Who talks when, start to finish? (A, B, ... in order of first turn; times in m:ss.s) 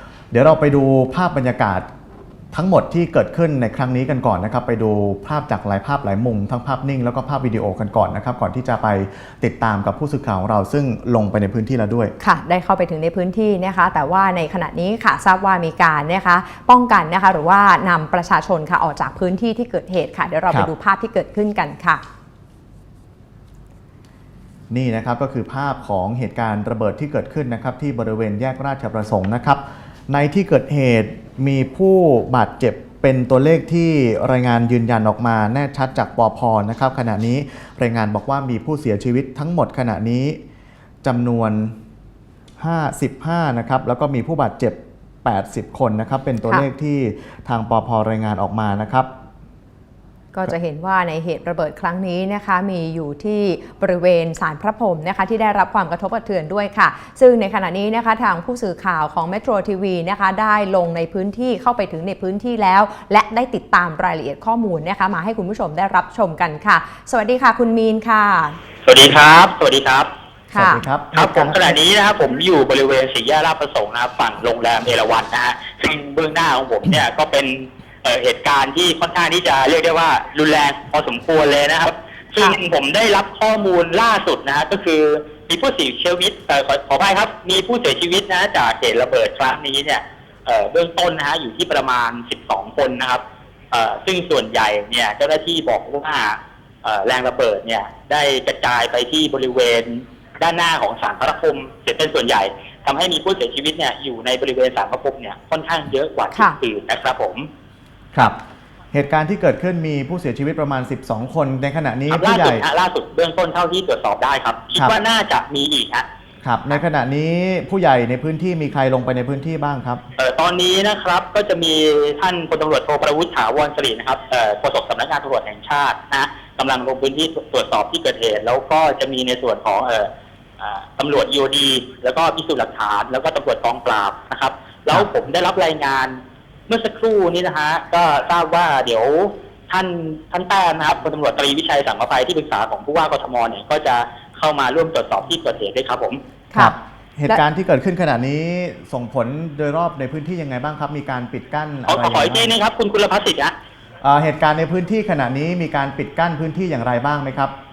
0:00.3-0:01.9 A
0:02.5-0:12.1 A
0:12.2-0:22.0 B
0:24.7-0:40.4 A
0:41.0-0:41.7 A
0:42.6-0:49.1 A
0:50.3-1:08.6 B
1:08.8-1:10.1 C
1:10.5-1:10.8 B
1:10.5-1:11.8 A
1:11.1-1:47.5 C
1:48.9-1:52.6 A
1:52.1-1:56.1 C
1:56.4-2:00.0 A
2:00.2-2:26.2 C
2:26.5-2:32.5 A
2:31.9-2:33.5 C
2:34.0-2:37.5 A